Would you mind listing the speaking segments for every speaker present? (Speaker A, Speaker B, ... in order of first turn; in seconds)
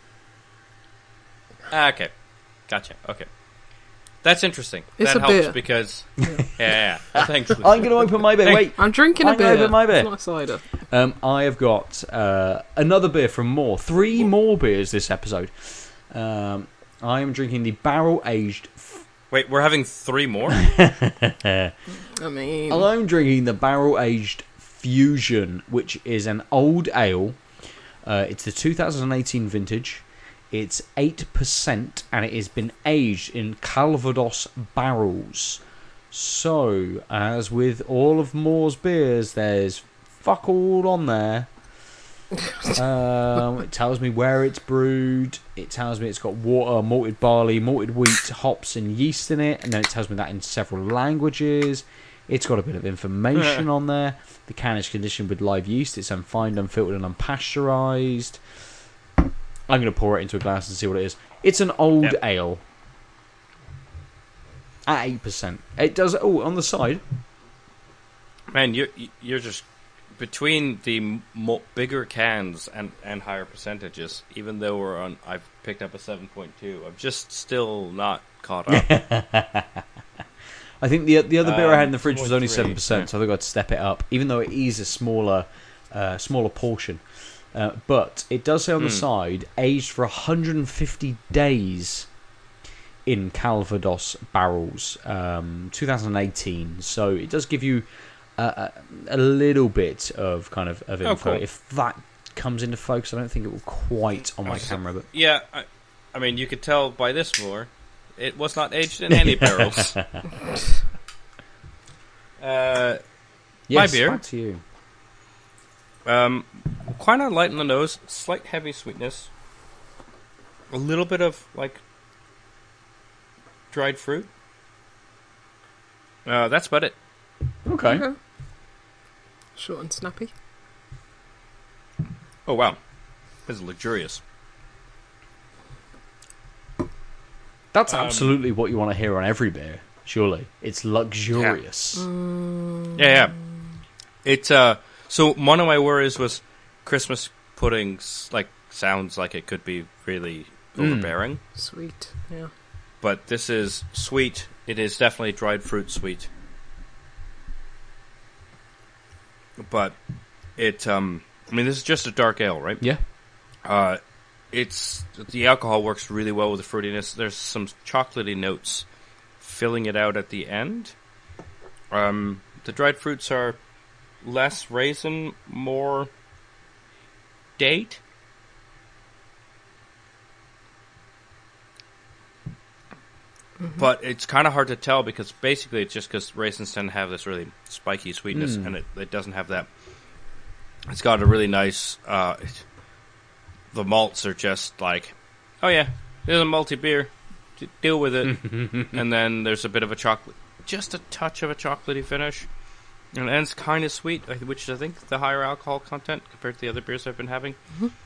Speaker A: 1.7-8.7, 13.9-14.3, 19.3-20.6, 68.5-78.9, 81.4-83.1, 88.8-89.0, 101.0-101.4, 104.4-110.2, 112.4-113.0, 113.7-114.2, 116.0-119.3, 120.7-121.8, 123.7-124.3, 126.2-127.0, 132.4-132.8, 133.4-134.2, 137.9-138.4, 142.9-143.4, 144.2-151.4, 153.0-156.3, 159.6-163.1, 163.6-168.9, 169.4-170.9, 171.9-173.6, 174.2-176.1, 177.6-178.0, 183.8-189.7, 190.9-192.7, 193.7-202.5, 203.1-207.8
Speaker B: 5.0-6.4, 8.8-10.8, 21.9-22.9, 127.8-128.2, 129.6-130.3, 141.9-143.2, 151.5-152.5
Speaker C: 7.5-19.1, 20.6-21.7, 22.7-27.5, 28.0-41.5, 42.7-58.4, 59.7-62.6, 64.9-67.0, 78.7-79.8, 80.8-92.1, 93.1-105.1, 109.1-109.9, 113.7-114.6, 127.7-128.1, 137.7-142.1, 150.8-151.2, 188.3-188.7, 198.3-199.0